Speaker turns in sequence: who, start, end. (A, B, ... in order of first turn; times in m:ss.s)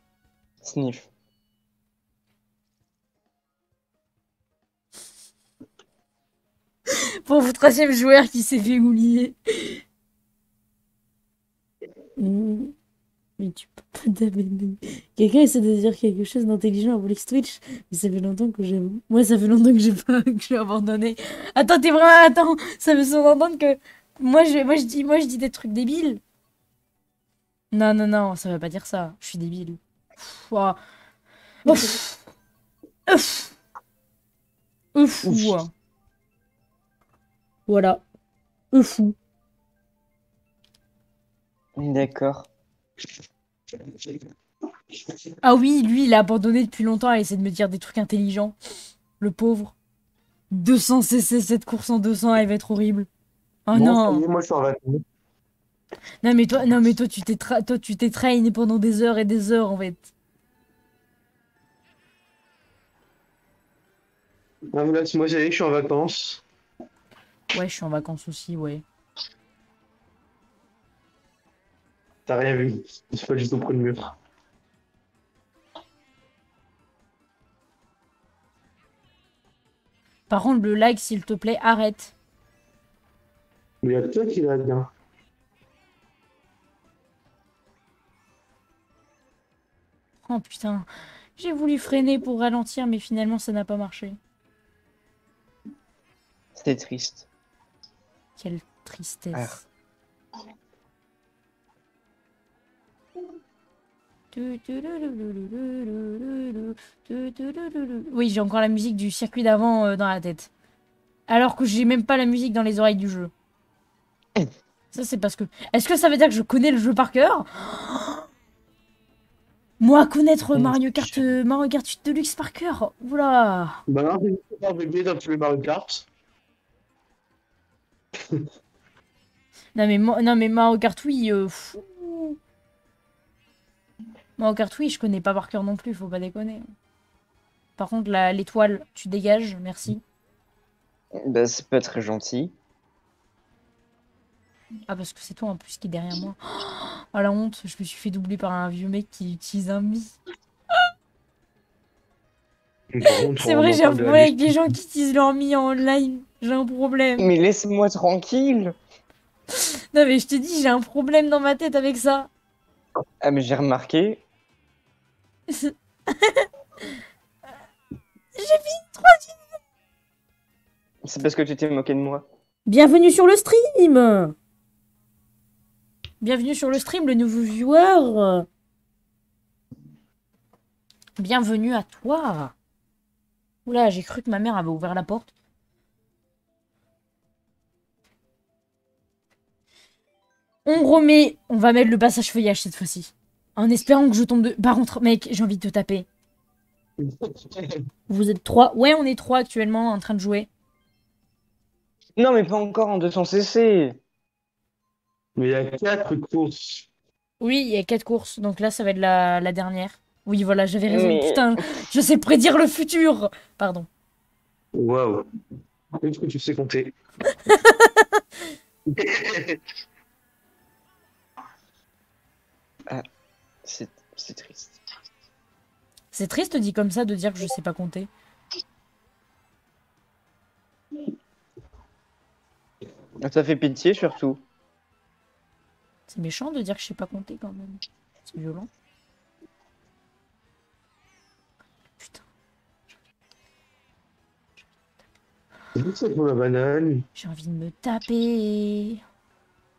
0:00.6-0:01.1 A
0:06.9-0:09.8 B
0:12.2-0:12.7 B
0:13.4-0:26.2 B
0:27.7-0:30.8 B
0:31.6-0:32.2 B
0:33.1-0:33.5 B
0:34.9-0:35.7 B
0:37.7-0:38.0 B
0:38.7-0:39.2 B
0:41.8-0:42.5 A
0:45.4-0:48.6 B
0:49.2-0:49.8 B
0:50.5-0:53.1 B
0:53.6-0:54.2 B
0:53.7-0:55.0 C
0:56.2-1:00.1 B
1:04.7-1:06.4 C
1:07.5-1:08.8 B
1:12.3-1:14.1 C
1:20.3-1:22.1 B
1:23.8-1:24.9 C
1:30.2-1:34.2 B
1:36.5-1:37.3 A
1:38.4-1:39.6 B
1:39.3-1:39.6 A
1:44.3-1:50.5 B
1:51.3-1:53.3 B
1:54.9-1:58.2 B
1:59.8-2:03.8 B
2:00.6-2:01.2 A
2:03.9-2:06.1 C
2:09.8-2:12.4 B
2:14.4-2:16.6 B
2:17.8-2:20.0 B
2:21.1-2:22.5 A
2:24.9-2:30.2 B
2:32.9-2:34.5 C
2:33.3-2:37.3 B
2:37.2-2:38.8 A
2:39.5-2:42.3 B
2:43.2-2:44.2 A
2:45.5-2:46.5 B
2:48.4-2:49.4 B
2:51.0-2:52.2 A
2:52.6-2:54.4 B
2:56.2-2:58.5 B
3:01.2-3:02.5 B
3:03.6-3:05.3 B
3:10.6-3:16.1 B
3:17.0-3:17.8 C
3:18.1-3:20.5 B
3:22.2-3:24.0 A
3:25.4-3:26.9 C
3:27.4-3:33.9 B
3:30.9-3:31.6 A
3:34.7-3:35.2 C
3:36.0-3:36.9 C
3:37.3-3:38.2 B
3:38.9-3:39.6 C
3:43.6-3:44.8 A
3:46.1-3:48.1 B
3:53.2-3:54.4 A
3:56.1-3:58.7 B
4:02.0-4:02.2 B
4:05.8-4:07.0 C
4:07.2-4:09.0 B